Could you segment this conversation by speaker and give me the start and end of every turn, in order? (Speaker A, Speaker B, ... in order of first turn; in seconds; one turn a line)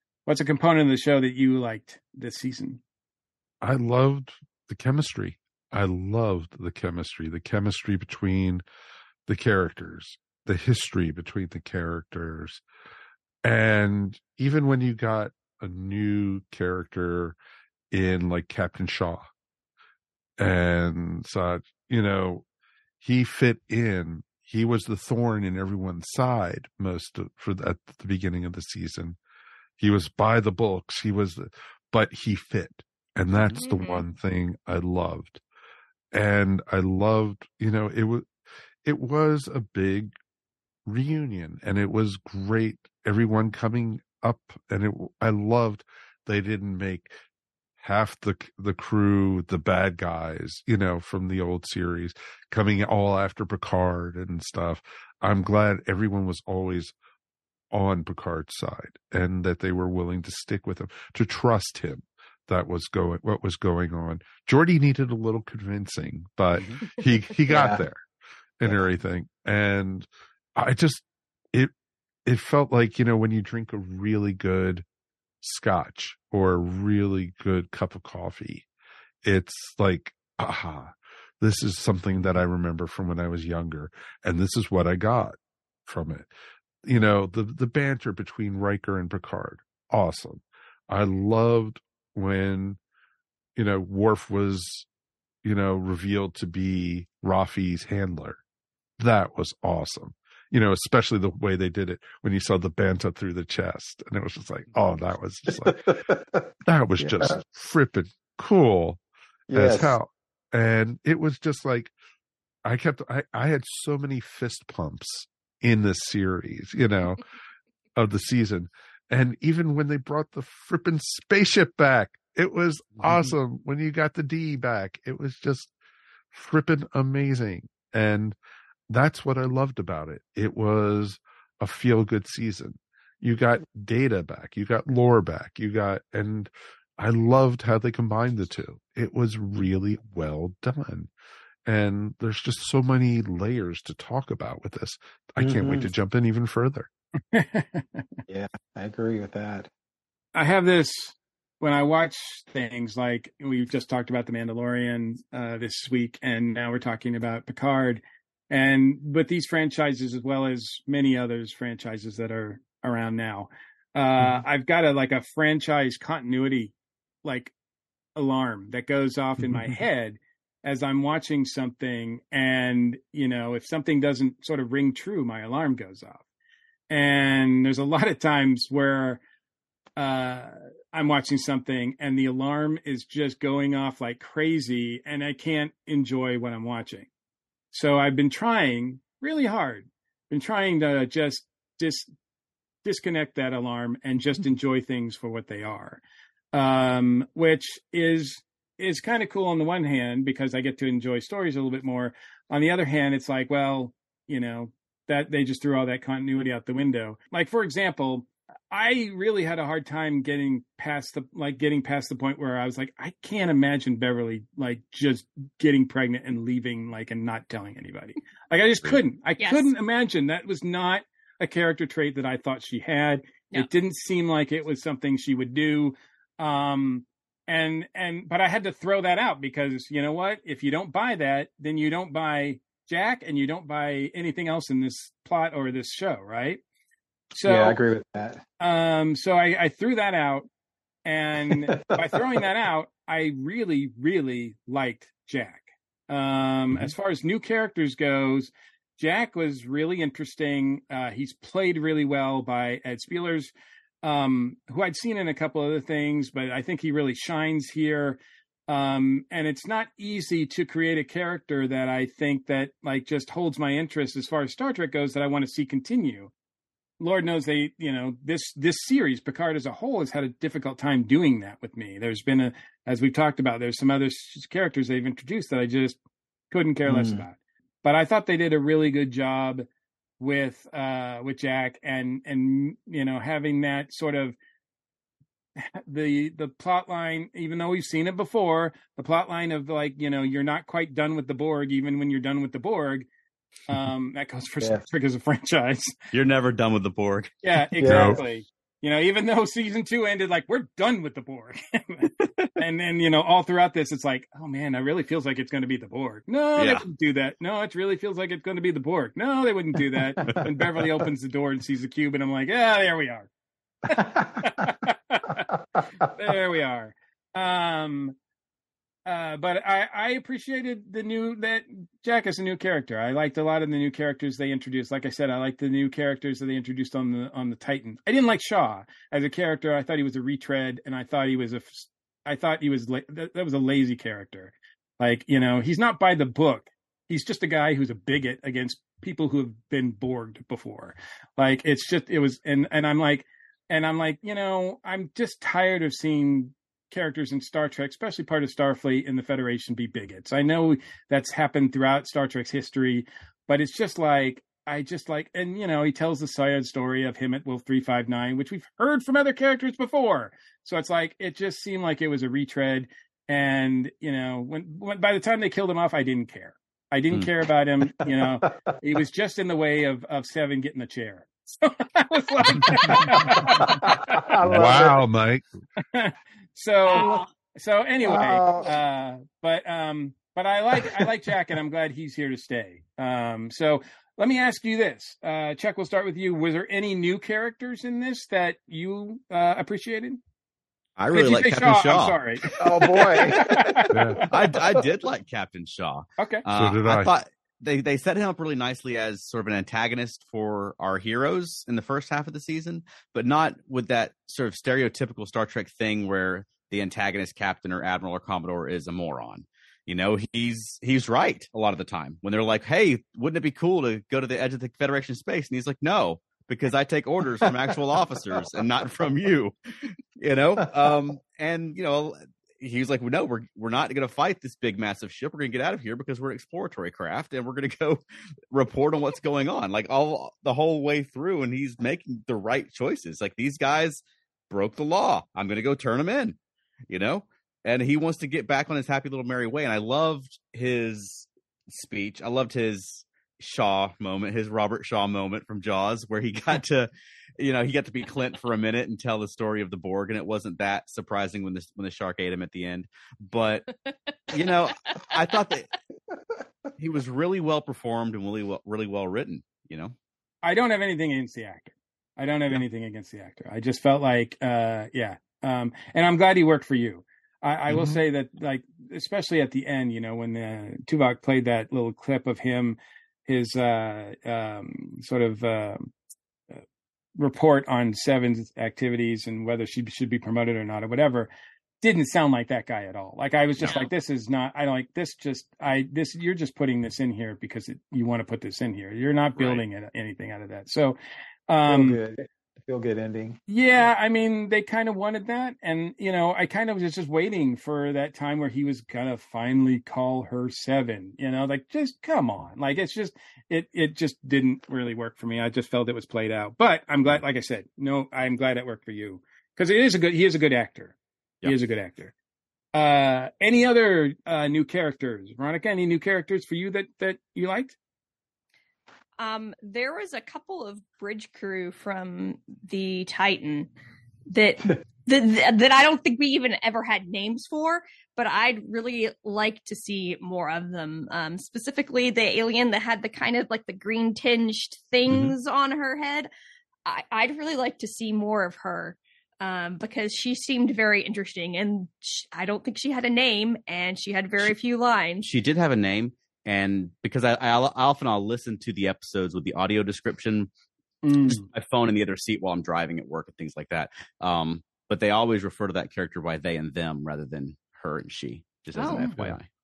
Speaker A: 0.3-2.8
Speaker B: 3.6-8.6
Speaker B: 9.3-12.6
Speaker B: 13.4-17.4
Speaker B: 17.9-19.3
Speaker B: 20.4-22.4
Speaker B: 23.0-29.2
Speaker B: 29.8-35.4
Speaker C: 33.3-33.6
Speaker D: 33.5-34.0
Speaker B: 36.1-38.3
Speaker B: 38.8-40.1
Speaker B: 40.9-47.1
Speaker B: 47.8-56.9
Speaker B: 57.7-68.0
Speaker E: 67.5-67.8
Speaker B: 68.6-71.7
Speaker B: 72.2-74.8
Speaker B: 75.4-78.7
Speaker B: 79.2-86.3
Speaker B: 86.8-92.8
Speaker B: 93.5-94.9
Speaker B: 95.4-98.4
Speaker B: 99.0-105.8
Speaker E: 105.6-106.4
Speaker B: 106.7-109.0
Speaker E: 107.0-107.4
Speaker E: 109.5-109.9
Speaker B: 109.5-111.9
Speaker B: 112.6-117.2
Speaker B: 117.9-125.7
Speaker B: 126.3-128.4
Speaker B: 128.9-141.1
Speaker B: 141.6-146.9
Speaker E: 145.4-145.9
Speaker A: 147.3-148.0
Speaker E: 148.3-149.7
Speaker A: 150.3-167.5
Speaker A: 168.2-176.2
Speaker A: 176.9-179.2
Speaker A: 180.0-187.1
Speaker A: 187.7-192.1
Speaker A: 192.8-196.0
Speaker A: 196.5-236.6
Speaker D: 219.4-219.7
Speaker A: 237.3-237.8
Speaker E: 237.4-238.4
Speaker A: 238.6-240.5
Speaker A: 241.0-253.5
Speaker E: 241.5-242.2
Speaker A: 254.0-266.3
Speaker A: 267.0-276.0
Speaker A: 276.5-279.6
Speaker E: 276.9-277.2
Speaker A: 280.2-284.4
Speaker A: 285.6-293.1
Speaker A: 293.7-295.9
Speaker C: 296.1-297.4
Speaker A: 297.4-313.3
Speaker E: 297.8-298.3
Speaker B: 297.8-298.2
Speaker C: 306.6-306.8
Speaker E: 310.2-310.4
Speaker E: 313.9-314.7
Speaker A: 313.9-315.5
Speaker A: 316.0-318.1
Speaker A: 319.1-374.3
Speaker E: 368.1-368.5
Speaker E: 373.2-375.0
Speaker B: 374.4-375.4
Speaker A: 375.8-390.2
Speaker D: 376.9-377.3
Speaker E: 378.0-378.7
Speaker C: 391.0-393.0
Speaker A: 391.1-394.4
Speaker E: 392.6-393.9
Speaker B: 393.9-394.3
Speaker C: 394.3-419.5
Speaker A: 396.2-396.4
Speaker B: 396.5-397.1
Speaker C: 420.2-436.4
Speaker C: 436.9-453.7
Speaker C: 454.3-455.7
Speaker C: 456.8-459.9
Speaker A: 460.4-475.9
Speaker A: 477.2-481.3
Speaker A: 481.8-491.0
Speaker C: 489.4-489.6
Speaker A: 491.5-492.0
Speaker E: 491.7-493.4
Speaker A: 493.5-512.1
Speaker A: 512.7-517.8
Speaker D: 519.2-523.7
Speaker D: 524.3-536.3
Speaker D: 536.9-545.3
Speaker C: 545.2-550.5
Speaker A: 551.0-551.5
Speaker C: 551.3-559.5
Speaker D: 558.7-559.1
Speaker A: 558.9-559.4